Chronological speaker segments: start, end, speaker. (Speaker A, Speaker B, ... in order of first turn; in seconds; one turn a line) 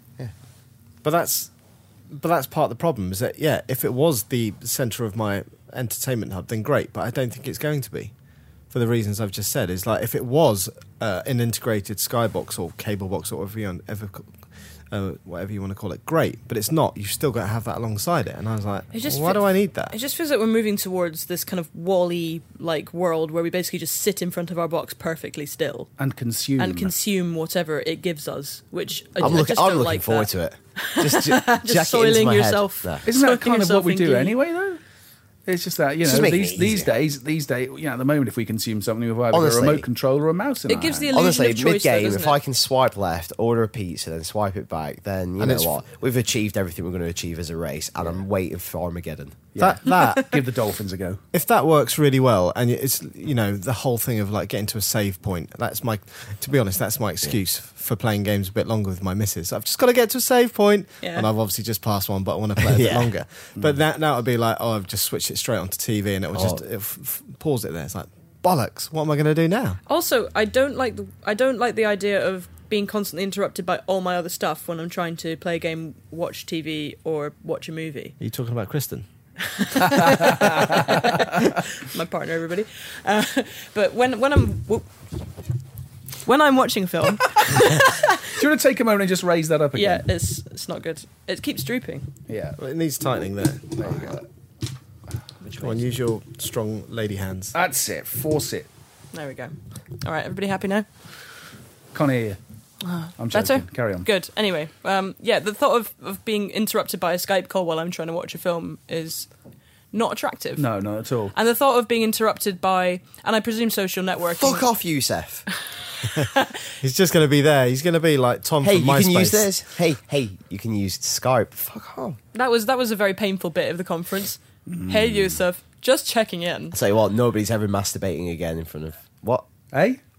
Speaker A: 1.0-1.5
Speaker A: 2.1-8.1
Speaker A: 8.7-14.3
Speaker A: 14.9-19.9
Speaker B: 18.9-25.9
Speaker C: 26.0-26.9
Speaker B: 26.6-34.4
Speaker D: 29.2-33.1
Speaker C: 33.0-34.8
Speaker C: 35.5-41.1
Speaker D: 36.0-36.9
Speaker D: 39.3-39.9
Speaker B: 40.7-42.4
Speaker D: 41.1-49.5
Speaker A: 45.4-45.7
Speaker C: 49.5-51.2
Speaker A: 49.6-50.4
Speaker B: 49.9-50.2
Speaker A: 51.3-69.8
Speaker B: 61.0-61.3
Speaker D: 62.6-63.1
Speaker D: 66.3-66.6
Speaker B: 69.9-78.2
Speaker A: 78.2-79.0
Speaker B: 79.4-84.9
Speaker C: 80.1-81.0
Speaker B: 86.2-88.3
Speaker C: 88.3-90.0
Speaker B: 89.7-92.1
Speaker C: 92.3-92.6
Speaker A: 92.6-94.1
Speaker C: 93.8-94.2
Speaker B: 95.4-95.8
Speaker A: 95.6-97.5
Speaker C: 97.5-98.7
Speaker B: 99.1-100.8
Speaker C: 101.9-102.4
Speaker B: 103.0-109.3
Speaker C: 103.2-104.1
Speaker B: 109.9-110.7
Speaker C: 110.6-111.3
Speaker B: 111.3-114.7
Speaker D: 114.3-115.5
Speaker B: 116.0-116.5
Speaker A: 116.8-119.5
Speaker D: 118.6-122.2
Speaker B: 122.3-126.8
Speaker C: 124.7-125.4
Speaker D: 126.7-129.5
Speaker C: 129.7-130.0